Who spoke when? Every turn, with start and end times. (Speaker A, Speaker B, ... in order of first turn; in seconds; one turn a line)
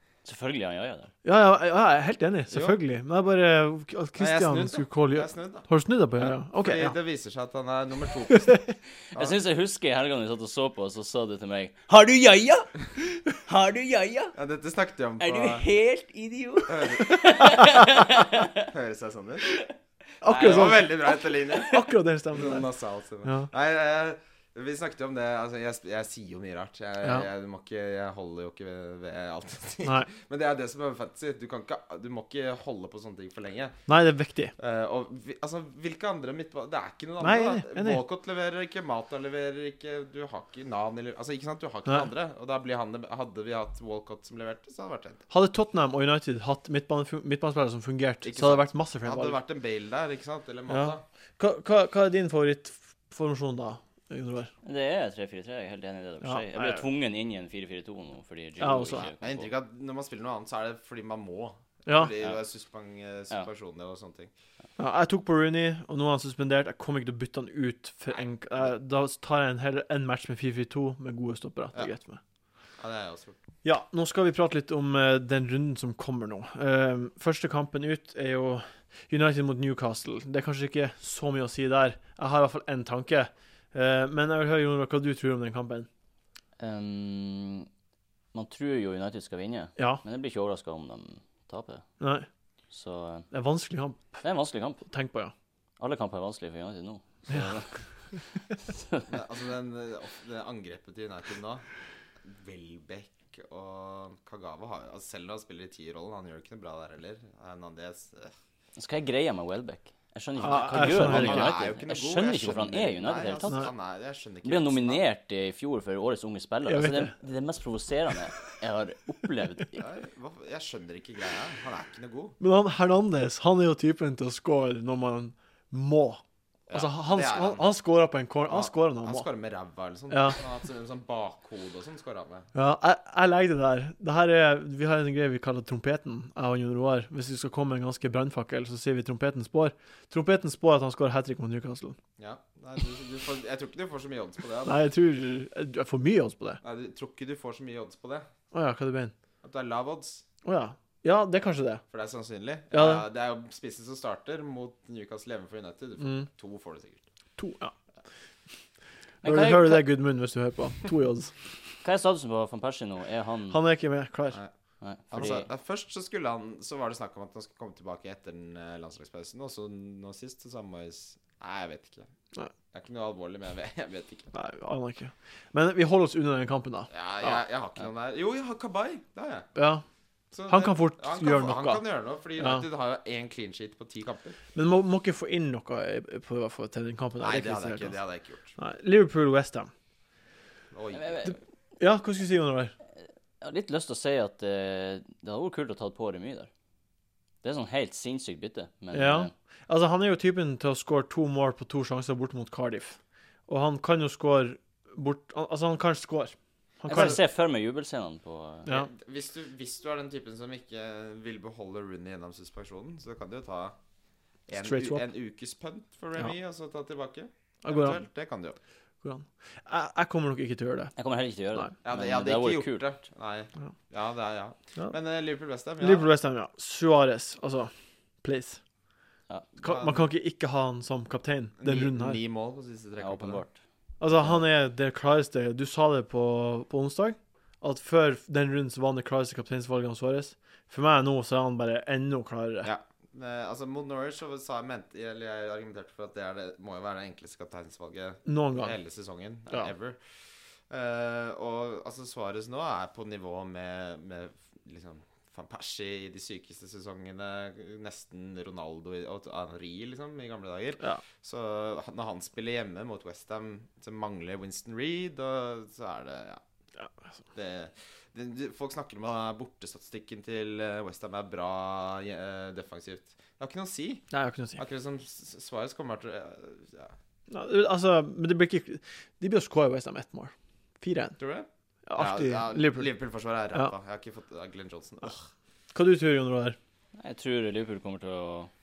Speaker A: 0.2-1.1
Speaker B: 1.2-7.0
Speaker C: 2.5-2.8
Speaker C: 4.2-9.4
Speaker A: 9.1-14.3
Speaker C: 14.3-15.7
Speaker A: 15.2-18.7
Speaker C: 16.7-17.2
Speaker C: 18.6-19.6
Speaker B: 20.2-22.7
Speaker C: 20.3-33.8
Speaker A: 20.4-20.7
Speaker B: 23.2-23.5
Speaker B: 33.9-34.5
Speaker C: 34.6-45.2
Speaker B: 37.2-38.0
Speaker B: 45.3-49.4
Speaker C: 48.2-51.0
Speaker B: 50.7-54.5
Speaker A: 54.6-59.5
Speaker B: 56.2-56.9
Speaker B: 58.6-59.1
Speaker C: 58.9-64.3
Speaker B: 61.9-62.1
Speaker B: 64.8-72.2
Speaker C: 68.1-68.7
Speaker C: 72.8-73.4
Speaker B: 73.6-85.9
Speaker A: 86.6-87.7
Speaker A: 88.3-91.9
Speaker B: 89.8-90.0
Speaker B: 92.0-92.3
Speaker A: 92.7-93.3
Speaker B: 93.3-94.2
Speaker A: 94.2-94.8
Speaker B: 94.8-95.3
Speaker A: 95.8-99.1
Speaker C: 99.1-101.7
Speaker C: 102.2-108.3
Speaker A: 108.8-113.7
Speaker B: 110.4-111.5
Speaker C: 110.4-115.0
Speaker A: 114.4-119.8
Speaker B: 116.7-117.1
Speaker C: 119.8-122.4
Speaker B: 122.4-129.3
Speaker C: 126.7-127.7
Speaker C: 128.5-132.5
Speaker B: 130.1-130.4
Speaker B: 132.5-142.0
Speaker C: 142.2-144.8
Speaker B: 144.7-146.6
Speaker C: 146.6-148.3
Speaker B: 148.5-149.1
Speaker C: 149.4-150.2
Speaker B: 150.4-151.8
Speaker C: 151.9-157.0
Speaker B: 152.7-153.1
Speaker B: 156.0-156.3
Speaker B: 157.4-157.8
Speaker A: 159.2-159.9
Speaker B: 159.2-161.3
Speaker A: 161.8-163.6
Speaker B: 163.5-164.4
Speaker A: 164.8-165.5
Speaker C: 165.1-172.1
Speaker C: 172.7-174.3
Speaker B: 174.3-177.4
Speaker C: 176.9-179.5
Speaker B: 179.6-179.8
Speaker C: 180.3-184.4
Speaker B: 180.5-181.8
Speaker B: 182.4-182.7
Speaker B: 184.6-188.0
Speaker C: 187.2-188.6
Speaker B: 188.6-189.7
Speaker C: 190.7-191.4
Speaker A: 190.9-191.4
Speaker B: 191.3-192.8
Speaker A: 193.4-196.5
Speaker A: 197.4-199.3
Speaker B: 198.9-207.2
Speaker A: 206.9-208.7
Speaker C: 208.7-213.8
Speaker C: 214.5-218.6
Speaker B: 214.6-215.1
Speaker B: 217.6-218.0
Speaker B: 219.0-220.9
Speaker A: 221.0-222.8
Speaker C: 221.8-226.1
Speaker B: 225.8-227.7
Speaker B: 228.2-228.6
Speaker C: 229.6-230.1
Speaker B: 229.6-232.2
Speaker C: 231.6-233.4
Speaker A: 233.0-233.6
Speaker B: 234.0-242.7
Speaker C: 242.6-250.0
Speaker B: 248.3-248.8
Speaker C: 250.7-266.4
Speaker C: 267.3-276.9
Speaker B: 274.1-274.6
Speaker B: 277.3-281.2
Speaker C: 281.2-285.2
Speaker B: 281.9-282.9
Speaker B: 285.7-286.6
Speaker A: 287.0-288.5